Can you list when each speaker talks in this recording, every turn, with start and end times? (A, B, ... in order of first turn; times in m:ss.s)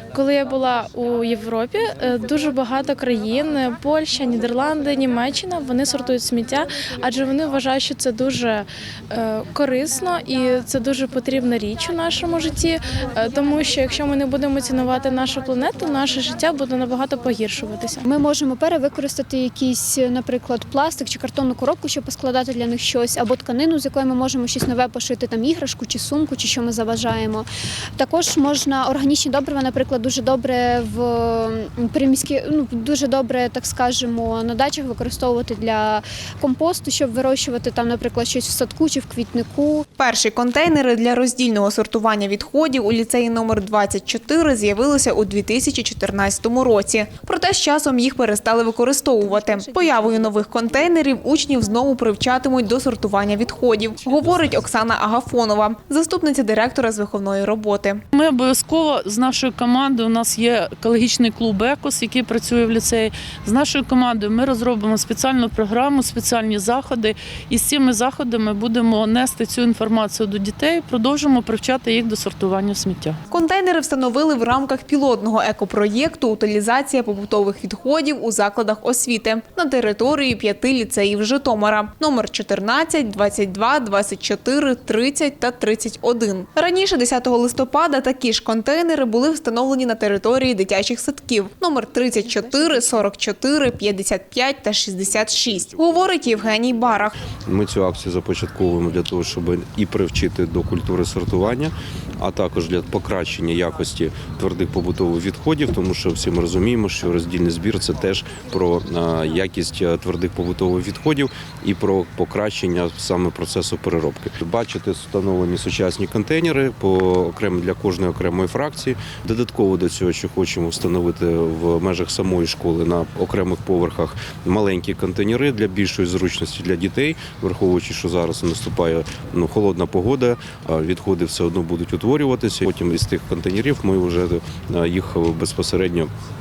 0:00.1-0:18.0 A
0:18.0-0:27.5 B
0:28.0-0:39.8 B
0:40.0-0:58.0 C
0:49.5-0:50.0 B
0:58.1-1:13.2 D
1:13.3-1:37.1 C
1:32.4-1:32.7 B
1:37.4-2:16.1 E